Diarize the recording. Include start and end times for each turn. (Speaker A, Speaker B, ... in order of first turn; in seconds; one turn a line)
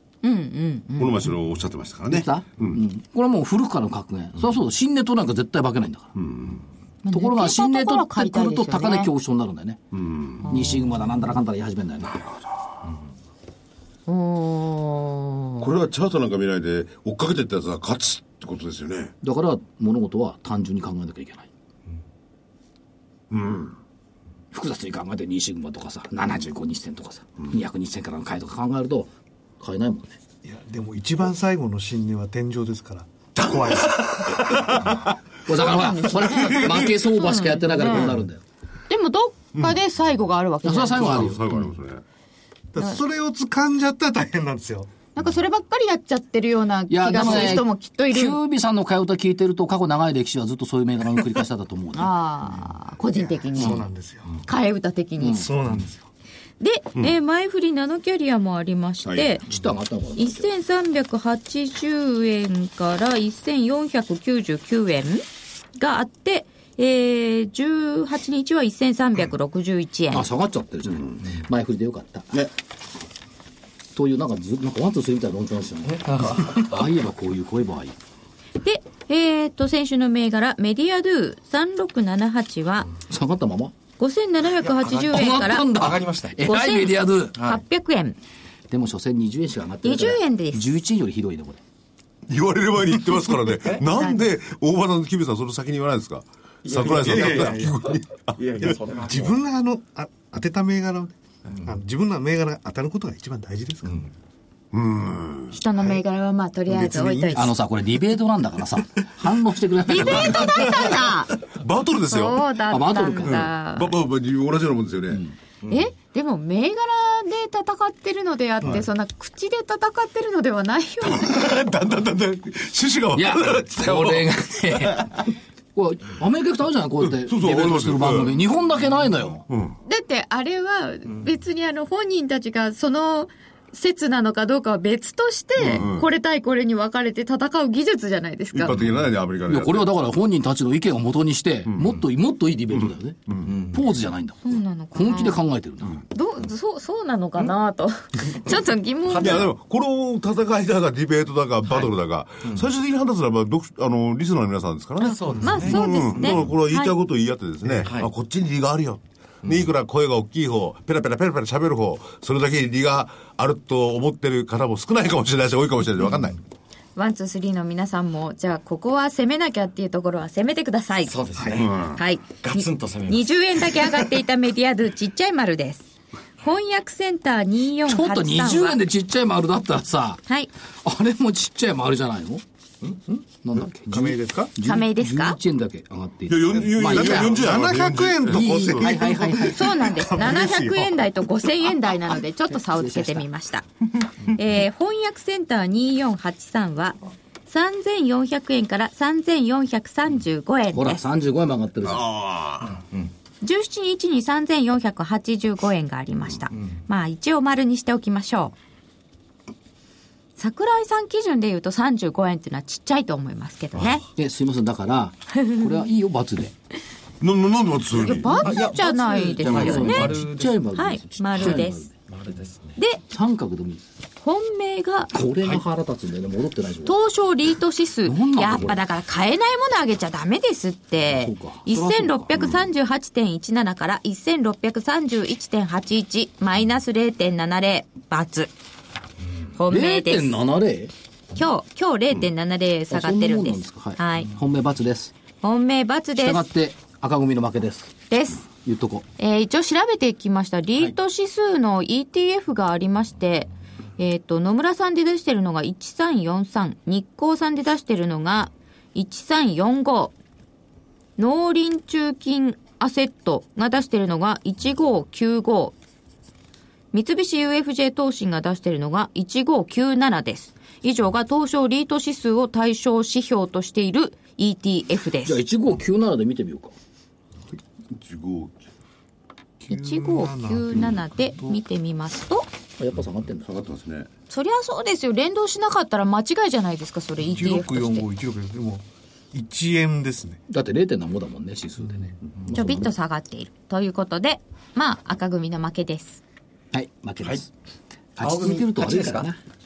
Speaker A: 0.2-1.3
Speaker B: 1.0-2.8
Speaker C: 2.1-6.1
Speaker B: 6.2-6.6
Speaker A: 7.0-9.1
Speaker C: 7.1-9.8
Speaker B: 9.9-10.5
Speaker A: 10.4-11.2
Speaker C: 10.4-12.2
Speaker A: 14.1-15.7
Speaker B: 15.6-19.1
Speaker C: 19.2-21.5
Speaker B: 23.3-23.7
Speaker C: 24.5-30.2
Speaker D: 30.4-35.0
Speaker B: 33.4-35.0
Speaker C: 35.4-38.4
Speaker A: 35.5-38.1
Speaker B: 36.3-36.9
Speaker A: 38.9-41.3
Speaker C: 40.6-41.7
Speaker B: 40.9-42.0
Speaker D: 42.7-45.0
Speaker A: 45.1-48.4
Speaker C: 46.9-52.1
Speaker A: 51.9-53.8
Speaker D: 53.2-54.4
Speaker C: 53.6-53.8
Speaker A: 54.4-55.5
Speaker C: 55.2-55.5
Speaker D: 55.3-56.1
Speaker A: 56.6-59.4
Speaker B: 59.0-59.4
Speaker C: 59.4-60.5
Speaker A: 60.1-65.2
Speaker A: 65.8-70.3
Speaker C: 70.1-72.4
Speaker C: 73.9-78.0
Speaker E: 75.8-76.8
Speaker A: 78.6-82.9
Speaker C: 83.1-83.7
Speaker A: 84.0-85.7
Speaker E: 84.6-86.4
Speaker C: 84.9-87.3
Speaker A: 86.4-88.2
Speaker E: 87.4-87.6
Speaker C: 88.7-91.6
Speaker A: 89.8-90.7
Speaker B: 92.3-98.8
Speaker E: 93.5-93.8
Speaker A: 93.9-94.3
Speaker E: 96.6-97.7
Speaker D: 96.9-97.8
Speaker E: 98.3-99.4
Speaker D: 98.6-103.9
Speaker E: 101.5-101.7
Speaker E: 103.8-104.1
Speaker B: 104.7-105.6
Speaker A: 105.5-107.5
Speaker C: 107.3-110.8
Speaker A: 109.9-111.3
Speaker B: 111.4-112.5
Speaker A: 112.1-114.0
Speaker C: 112.7-113.5
Speaker B: 113.2-115.2
Speaker C: 115.1-115.3
Speaker E: 115.6-115.9
Speaker A: 115.7-121.4
Speaker B: 121.0-125.3
Speaker C: 123.1-129.4
Speaker B: 127.1-128.4
Speaker B: 129.5-129.8
Speaker A: 129.8-138.8
Speaker B: 135.6-136.1
Speaker B: 138.5-139.9
Speaker C: 139.4-146.0
Speaker B: 141.7-142.0
Speaker B: 142.7-143.6
Speaker E: 143.4-144.0
Speaker A: 144.4-145.4
Speaker A: 146.1-149.5
Speaker B: 149.1-166.4
Speaker E: 149.2-149.5
Speaker E: 151.6-151.9
Speaker E: 155.0-156.5
Speaker A: 155.0-156.9
Speaker D: 157.7-157.9
Speaker E: 157.8-158.1
Speaker E: 159.4-159.7
Speaker A: 166.9-171.1
Speaker E: 171.1-171.9
Speaker B: 171.6-172.0
Speaker A: 171.9-175.9
Speaker E: 172.4-173.3
Speaker A: 176.4-178.8
Speaker C: 177.8-180.2
Speaker C: 180.8-182.4
Speaker C: 183.4-187.5
Speaker D: 183.9-184.5
Speaker A: 184.6-185.4
Speaker B: 186.3-189.1
Speaker D: 186.8-191.0
Speaker C: 188.2-189.7
Speaker A: 189.5-193.7
Speaker C: 192.5-193.3
Speaker A: 194.2-201.0
Speaker C: 200.7-202.1
Speaker B: 201.8-202.8
Speaker E: 202.6-203.1
Speaker A: 203.4-208.5
Speaker E: 206.5-206.8
Speaker A: 210.4-214.0
Speaker E: 213.7-214.0
Speaker C: 214.2-216.5
Speaker A: 215.4-215.7
Speaker B: 217.2-218.4
Speaker E: 217.9-220.7
Speaker A: 218.0-220.2
Speaker C: 219.3-221.9
Speaker A: 220.7-221.9
Speaker E: 221.4-222.8
Speaker C: 223.1-223.8
Speaker A: 224.2-225.1
Speaker C: 225.1-227.0
Speaker A: 226.8-238.5
Speaker C: 228.0-228.8
Speaker C: 231.0-232.5
Speaker A: 239.5-240.4
Speaker C: 239.7-240.9
Speaker A: 241.3-244.3
Speaker C: 242.9-245.1
Speaker A: 245.4-246.5
Speaker C: 246.2-247.9
Speaker A: 248.1-248.5
Speaker C: 248.5-249.1
Speaker A: 249.2-260.1
Speaker A: 261.2-265.7
Speaker A: 266.9-275.4
Speaker C: 275.2-276.7
Speaker B: 277.9-278.6
Speaker D: 279.6-281.6
Speaker A: 279.7-282.5
Speaker C: 282.8-283.5
Speaker B: 283.4-284.1
Speaker A: 284.3-288.1
Speaker D: 287.2-290.4
Speaker C: 290.5-292.9
Speaker A: 292.5-296.2
Speaker C: 296.7-297.5
Speaker C: 298.1-299.4
Speaker E: 298.2-299.3